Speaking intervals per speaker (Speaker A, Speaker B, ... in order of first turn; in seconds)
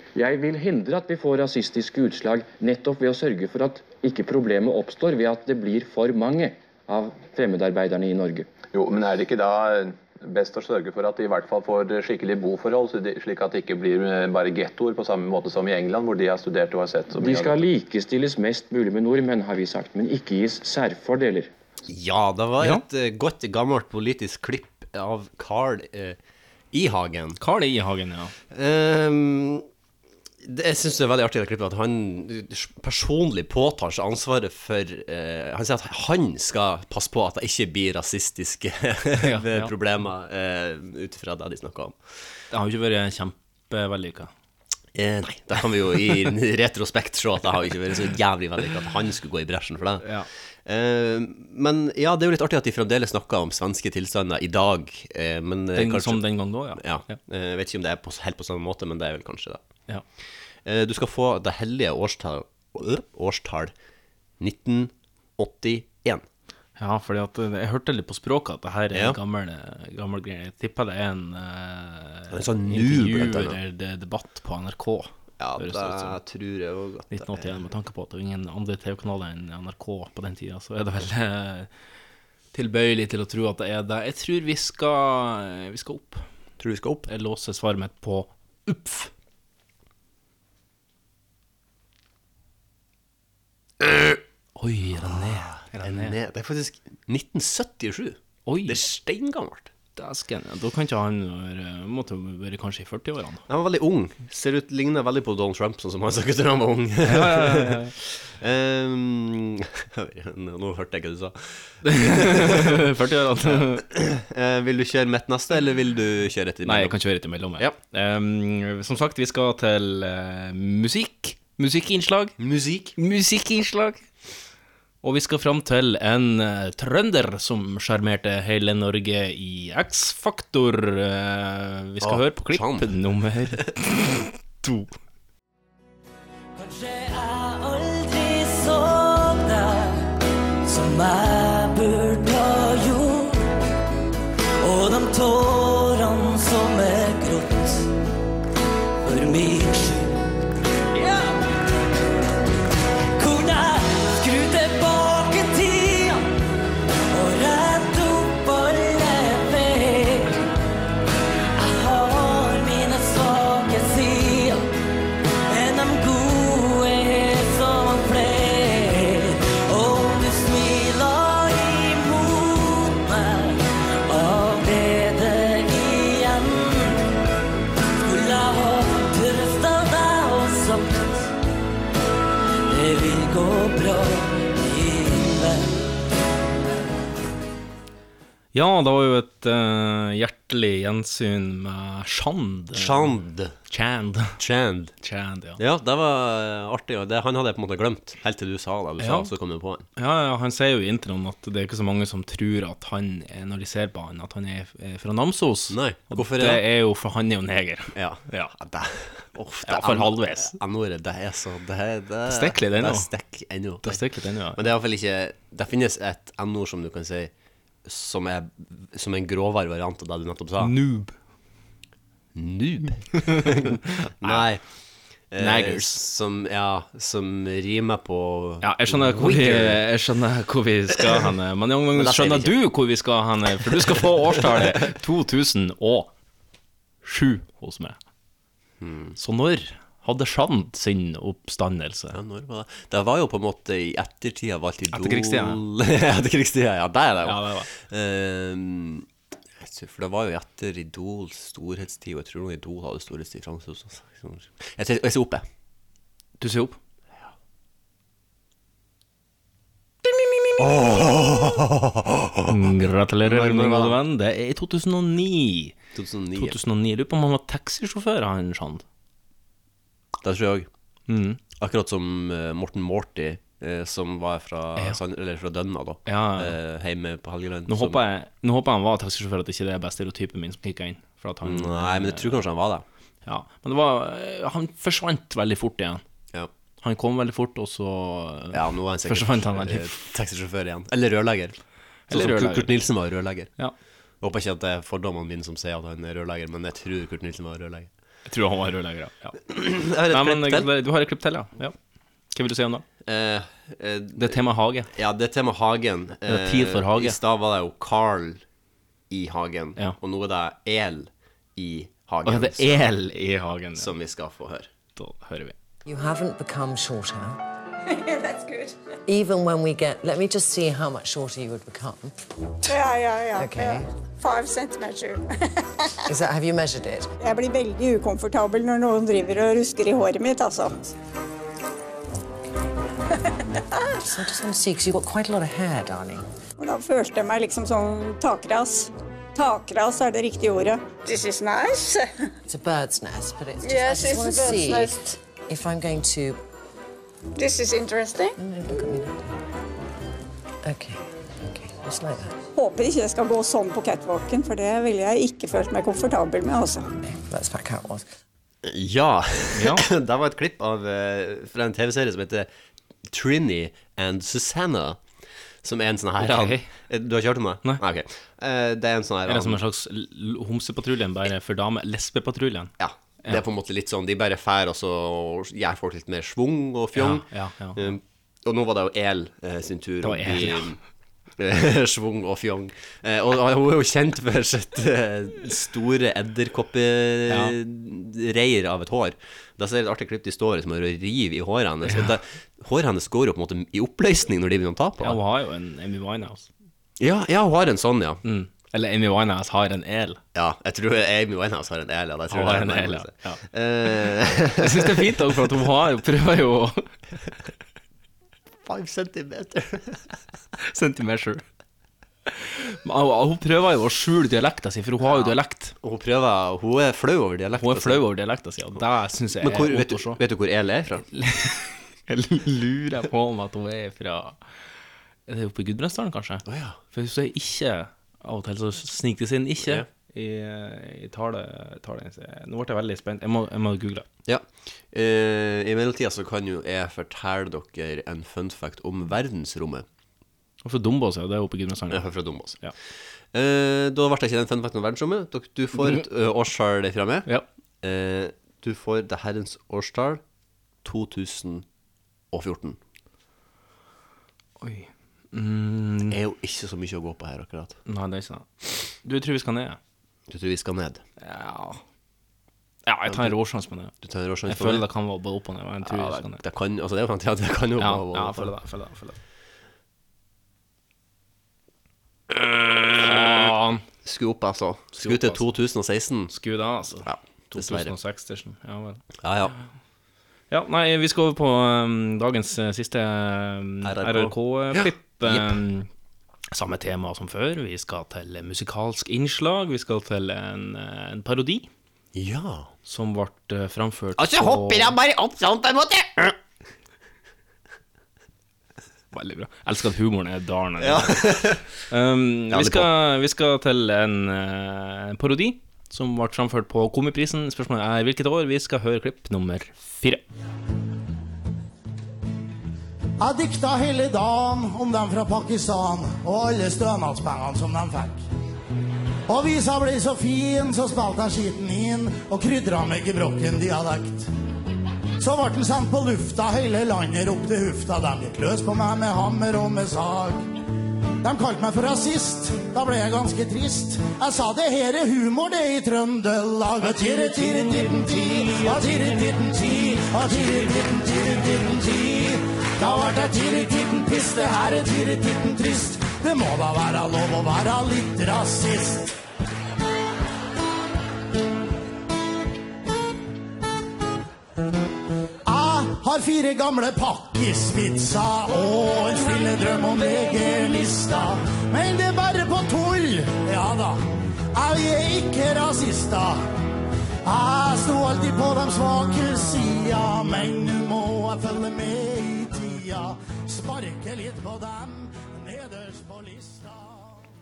Speaker A: 0.1-8.5, 17.1-21.5
Speaker B: 8.7-17.4
Speaker C: 21.8-26.2, 26.7-27.4, 28.5-29.6, 30.4-42.0, 44.9-50.1, 50.6-56.2, 56.8-59.6, 60.6-63.7, 64.4-66.2, 68.9-69.2, 72.3-73.6, 75.4-77.6, 86.6-87.1, 93.8-94.2, 95.0-99.7, 103.5-112.8, 113.4-117.0, 122.4-122.9, 132.0-132.9, 192.7-193.5, 194.4-194.9, 195.6-199.8, 205.7-206.6, 207.9-214.0, 214.5-217.3, 217.8-220.7, 222.3-224.6, 225.3-229.8, 231.9-232.5, 233.7-234.8, 238.8-239.2, 242.1-249.1, 249.6-255.4, 260.5-262.5, 263.2-264.0, 265.9-266.6, 270.2-270.7, 271.6-278.0, 281.4-282.8, 288.5-291.6, 292.1-293.5, 294.2-297.9, 299.5-300.7, 303.0-308.4, 309.1-312.9, 313.8-314.7, 358.6-362.5, 363.1-365.0, 365.6-369.6, 372.8-380.8, 381.4-395.2, 397.0-398.2, 400.3-405.4, 408.6-410.1, 415.0-418.0, 419.4-421.0, 426.4-426.8, 434.2-439.9, 441.9-442.6, 443.3-447.3, 447.8-450.2, 450.8-451.6, 452.3-452.8, 456.1-457.8, 460.3-461.0, 463.1-463.3, 464.0-464.9, 465.8-468.5, 472.3-476.3, 477.0-477.9, 479.2-479.5, 483.8-485.6, 492.1-492.7, 494.2-496.3, 500.8-501.6, 502.5-502.9
Speaker D: 27.4-28.3, 39.2-39.7, 42.5-44.3, 50.0-50.3, 55.7-57.2, 66.8-76.2, 77.1-81.7, 82.5-86.2, 87.1-89.1, 94.5-96.1, 98.5-98.8, 100.0-103.4, 107.0-107.9, 111.8-113.8, 116.6-122.3, 123.0-124.0, 125.0-134.9, 188.5-193.2, 193.7-194.4, 195.0-195.6, 199.0-199.3, 199.9-208.5, 209.6-210.6, 212.2-213.1, 213.8-214.6, 220.6-221.1, 223.3-223.6, 225.4-226.0, 228.6-236.1, 237.0-238.0, 239.2-242.2, 244.9-245.6, 247.2-247.7, 256.4-256.8, 262.5-265.8, 266.4-268.8, 271.1-271.4, 276.1-276.6, 277.7-282.4, 283.2-286.0, 286.8-290.0, 292.1-292.7, 298.2-299.4, 300.1-301.8, 302.3-302.8, 304.2-304.9, 306.2-307.2, 312.2-313.9, 314.9-315.5, 359.5-359.8, 366.2-366.7, 369.3-373.4, 376.9-378.0, 380.0-380.7, 387.3-387.6, 391.9-392.1, 395.0-396.5, 398.2-400.2, 402.3-403.4, 404.6-406.9, 410.6-411.4, 412.3-415.7, 417.6-420.2, 421.1-424.4, 425.3-434.1, 440.6-442.1, 445.8-446.0, 454.6-456.2, 457.9-458.5, 459.0-459.8, 461.2-461.8, 462.9-463.9, 464.5-466.4, 467.8-469.2, 473.0-473.8, 474.9-475.5, 476.3-479.0, 480.5-485.9, 486.5-491.7, 492.9-495.0, 499.1-501.3, 501.9-510.2
Speaker E: 136.6-140.1, 140.6-143.4, 144.6-147.9, 149.0-150.1, 150.9-151.3, 153.2-156.2, 157.1-160.4, 161.6-164.7, 165.5-177.1, 178.0-181.3, 182.7-185.8
Speaker F: 315.9-317.4, 319.1-322.1, 323.4-323.9, 326.1-327.1, 334.0-336.2, 342.5-346.4, 348.4-349.4, 350.6-352.3, 357.0-358.1
Speaker G: 317.9-318.7, 322.7-325.7, 327.2-330.9, 336.6-342.1, 343.6-345.1, 347.4-348.4, 352.5-356.9
Speaker H: 513.2-518.2, 519.3-524.3, 525.2-530.5, 531.2-549.1, 555.5-564.0, 564.5-566.4, 567.2-577.0